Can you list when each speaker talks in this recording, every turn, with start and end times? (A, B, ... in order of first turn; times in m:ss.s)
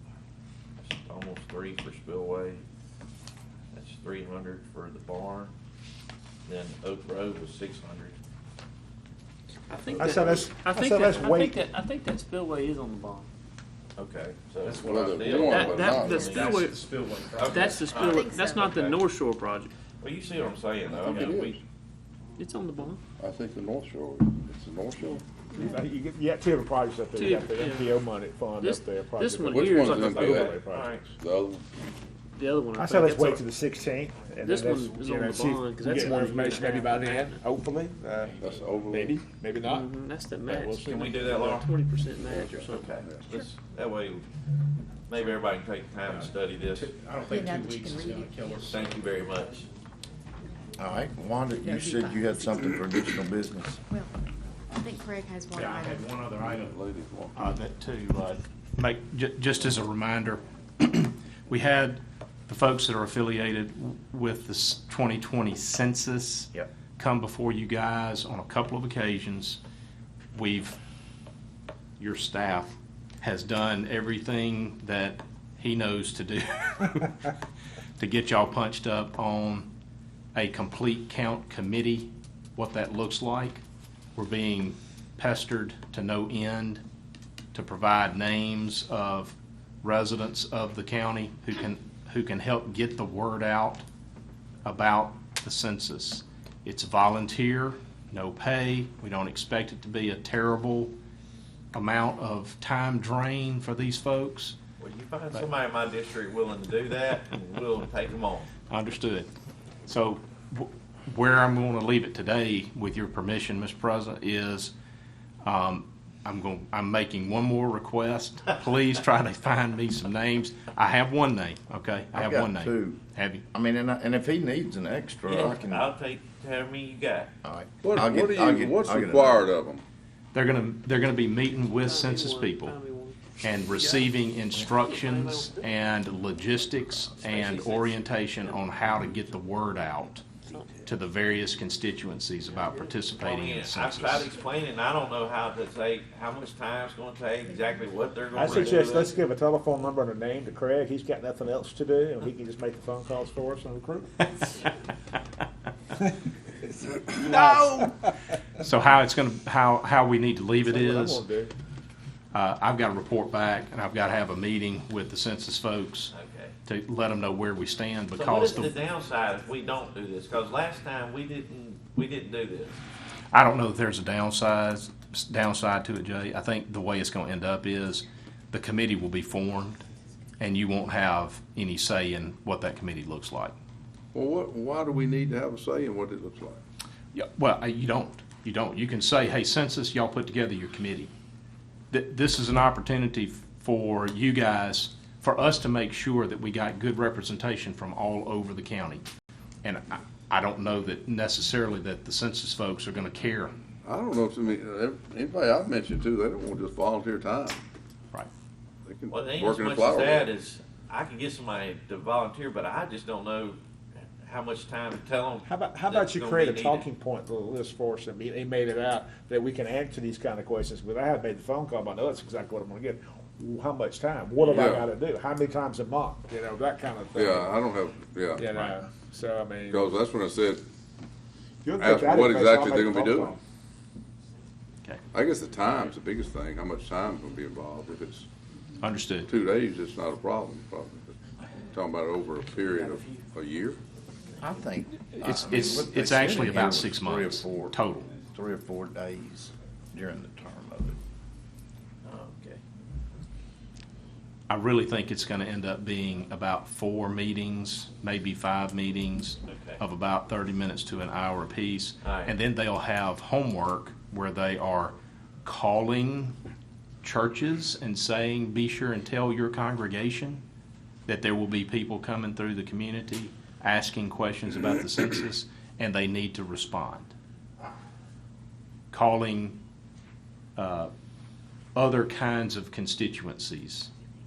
0:00.8-0:02.6 A
0:03.7-0:05.5 A
0:06.4-0:08.2 A
0:09.7-0:13.3 B
0:09.8-0:10.4 A
0:09.9-0:11.6 C
0:14.0-0:16.7 A
0:14.7-0:17.8 D
0:14.8-0:16.4 E
0:15.5-0:16.8 B
0:17.4-0:19.0 A
0:17.4-0:19.7 B
0:17.9-0:18.8 F
0:20.0-0:21.6 A
0:20.9-0:21.6 E
0:22.4-0:23.0 B
0:23.2-0:25.2 E
0:25.6-0:31.1 C
0:27.1-0:28.0 B
0:28.6-0:30.1 B
0:29.5-0:30.6 E
0:30.0-0:31.0 A
0:31.2-0:31.6 E
0:32.4-0:33.4 B
0:32.8-0:39.9 C
0:34.4-0:37.4 B
0:38.4-0:39.2 E
0:39.6-0:42.9 B
0:40.4-0:41.5 C
0:40.8-0:41.7 A
0:42.2-0:43.3 E
0:42.7-0:44.2 A
0:45.1-0:46.9 A
0:46.8-0:49.0 D
0:47.2-0:48.9 F
0:48.7-0:49.7 A
0:50.8-0:53.8 G
0:51.6-0:52.7 F
0:54.7-0:56.1 F
0:55.5-0:56.8 D
0:56.4-0:57.4 E
0:57.4-1:09.6 D
1:10.3-1:10.8 D
1:12.0-1:17.3 D
1:18.0-1:19.7 D
1:20.3-1:23.6 D
1:24.2-1:26.8 D
1:27.5-1:33.8 D
1:34.6-1:40.9 D
1:41.7-1:44.6 D
1:44.8-1:48.5 A
1:48.7-1:49.3 D
1:49.9-1:54.7 D
1:55.4-2:03.4 D
2:02.1-2:05.9 G
2:05.3-2:07.3 A
2:07.4-2:09.5 G
2:07.8-2:09.8 E
2:10.3-2:12.8 D
2:11.7-2:14.1 B
2:13.4-2:24.3 D
2:14.6-2:15.7 B
2:17.2-2:18.0 A
2:20.5-2:20.9 B
2:22.6-2:23.0 B
2:23.2-2:29.1 A
2:28.3-2:34.5 C
2:36.8-2:38.1 C
2:37.2-2:37.9 D
2:38.6-2:41.2 D
2:40.6-2:41.5 C
2:42.3-2:46.1 D
2:46.1-2:46.5 A
2:46.7-2:48.8 D
2:48.1-2:52.8 A
2:53.3-2:59.8 D
3:00.4-3:03.6 D
3:04.1-3:06.6 E
3:07.1-3:11.1 D
3:11.9-3:19.0 D
3:19.6-3:23.5 D
3:23.8-3:27.6 E
3:28.8-3:30.3 E
3:29.1-3:33.6 A
3:34.2-3:36.9 A
3:35.5-3:47.6 C
3:44.4-3:44.9 E
3:47.2-3:48.6 E
3:48.4-3:50.0 C
3:49.7-3:50.6 E
3:51.6-3:53.4 C
3:51.8-3:53.4 E
3:55.1-3:58.3 E
3:58.8-3:59.3 D
3:59.3-4:01.2 E
4:01.7-4:03.8 E
4:04.4-4:11.0 G
4:05.1-4:08.1 D
4:12.0-4:12.6 A
4:14.5-4:24.9 D
4:19.4-4:19.8 A
4:22.0-4:22.3 A
4:25.4-4:26.4 D
4:27.0-4:30.4 D
4:31.1-4:37.1 D
4:38.9-4:39.6 D
4:40.6-4:40.9 D
4:41.8-4:43.9 D